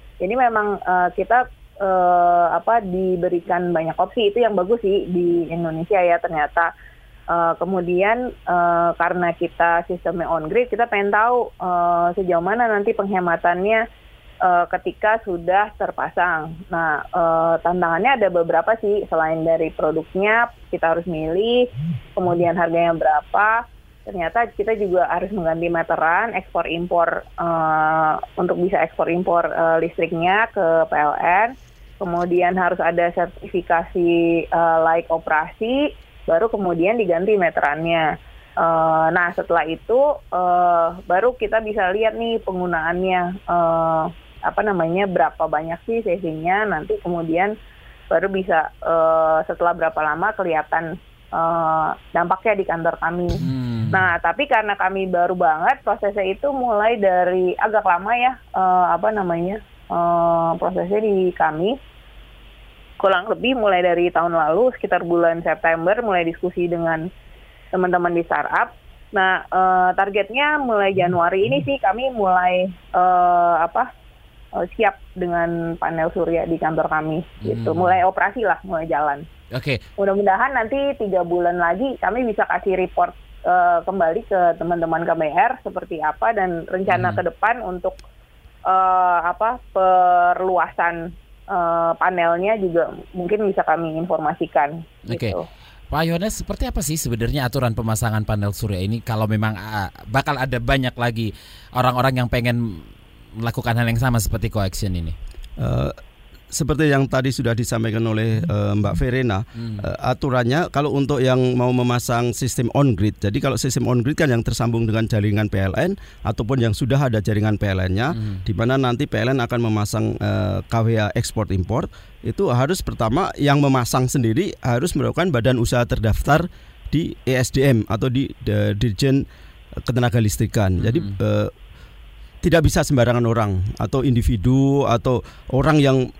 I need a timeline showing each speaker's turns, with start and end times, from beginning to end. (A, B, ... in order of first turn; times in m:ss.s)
0:00.2-0:06.7 A
0:07.3-0:13.8 A
0:14.4-0:47.5 A
0:48.1-1:01.8 A
0:53.4-0:54.0 B
1:03.0-1:07.0 A
1:07.7-1:13.9 A
1:14.6-1:19.2 A
1:17.4-1:18.0 B
1:19.5-1:19.8 B
1:20.0-1:28.0 A
1:26.9-1:27.2 B
1:28.7-1:35.4 A
1:35.1-1:35.4 B
1:35.9-1:42.8 B
1:43.4-1:45.2 B
1:45.6-1:46.0 C
1:46.5-2:09.2 C
1:49.6-1:49.8 B
1:58.1-1:58.4 B
2:09.8-2:11.5 C
2:10.8-2:11.1 B
2:12.4-2:16.0 C